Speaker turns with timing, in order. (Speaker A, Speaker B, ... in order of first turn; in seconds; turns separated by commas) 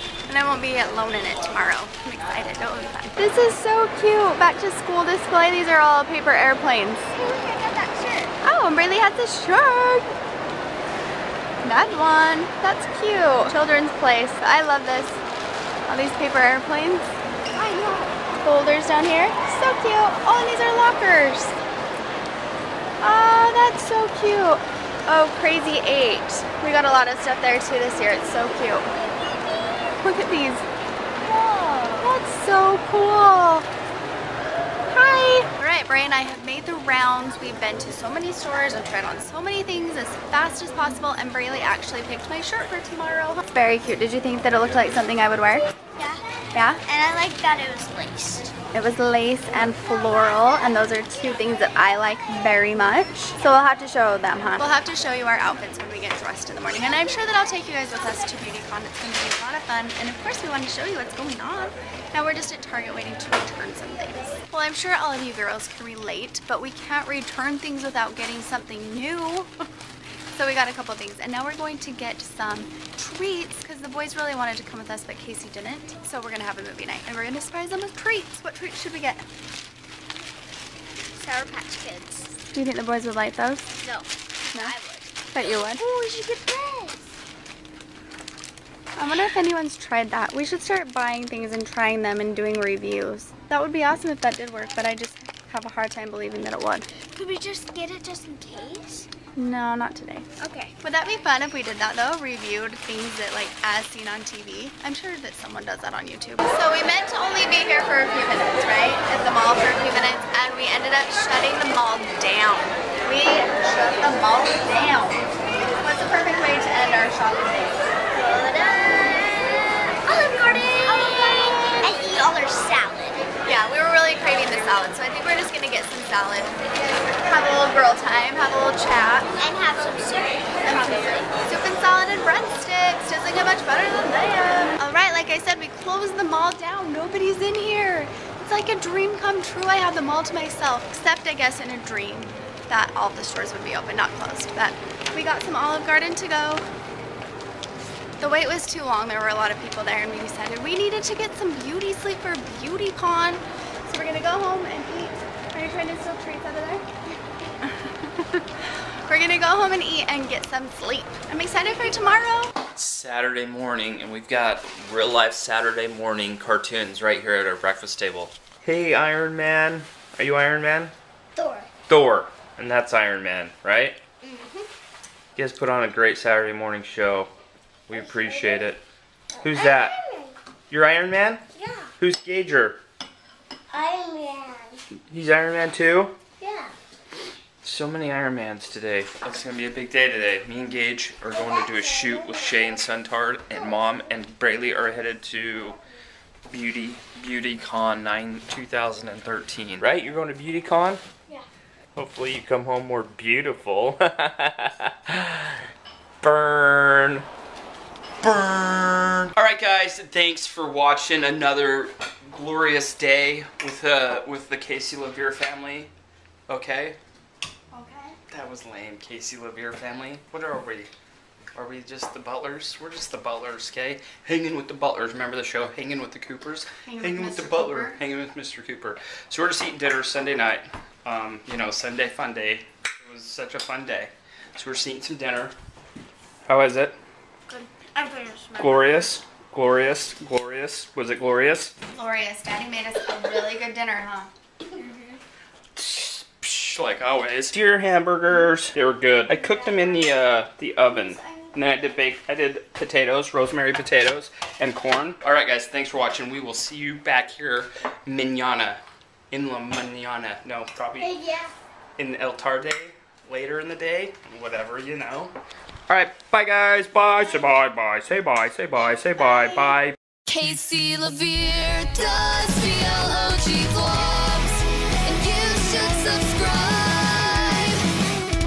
Speaker A: 0.3-7.1, Speaker B: 7.1-8.3, Speaker A: 8.4-10.1, Speaker A: 11.6-15.2, Speaker A: 15.9-17.1, Speaker B: 17.6-18.2, Speaker A: 18.4-21.6, Speaker A: 23.0-28.9, Speaker A: 30.0-30.6, Speaker B: 31.3-32.0, Speaker A: 31.9-33.7, Speaker A: 34.9-45.7, Speaker B: 46.0-46.2, Speaker A: 46.5-46.8, Speaker B: 46.9-48.5, Speaker A: 48.7-69.5, Speaker A: 70.3-79.3, Speaker B: 81.2-82.4, Speaker A: 82.5-83.7, Speaker B: 83.8-87.1, Speaker A: 85.3-85.8, Speaker A: 89.0-96.9, Speaker B: 97.1-99.1, Speaker A: 99.4-100.3, Speaker B: 100.4-100.8, Speaker A: 100.8-115.2, Speaker A: 115.8-117.9, Speaker B: 118.2-123.3, Speaker A: 123.4-126.6, Speaker A: 127.1-129.3, Speaker B: 129.4-131.3, Speaker A: 130.6-146.7, Speaker A: 148.2-156.9, Speaker A: 157.6-158.5, Speaker A: 159.1-162.5, Speaker C: 162.7-170.9, Speaker B: 171.4-171.7, Speaker C: 171.9-174.0, Speaker B: 174.2-174.7, Speaker C: 175.4-177.3, Speaker C: 177.9-178.8, Speaker B: 178.1-178.6, Speaker C: 179.4-180.0, Speaker B: 179.4-180.3, Speaker C: 180.7-181.4, Speaker B: 181.6-181.9, Speaker C: 182.0-182.8, Speaker B: 183.7-184.8, Speaker C: 185.1-186.2, Speaker B: 186.4-186.7, Speaker C: 187.6-195.8, Speaker C: 196.5-201.0, Speaker C: 202.0-205.4, Speaker C: 206.2-207.2, Speaker C: 208.2-215.9, Speaker C: 216.5-217.0, Speaker A: 217.7-218.2, Speaker C: 218.3-220.9, Speaker C: 221.5-235.6, Speaker A: 226.8-228.0, Speaker C: 236.5-237.0, Speaker B: 237.5-239.1, Speaker C: 238.6-241.7, Speaker A: 241.9-244.3, Speaker B: 244.8-245.2, Speaker C: 245.8-261.2, Speaker B: 261.0-261.5, Speaker C: 262.0-265.3, Speaker C: 265.9-270.0, Speaker D: 270.3-277.8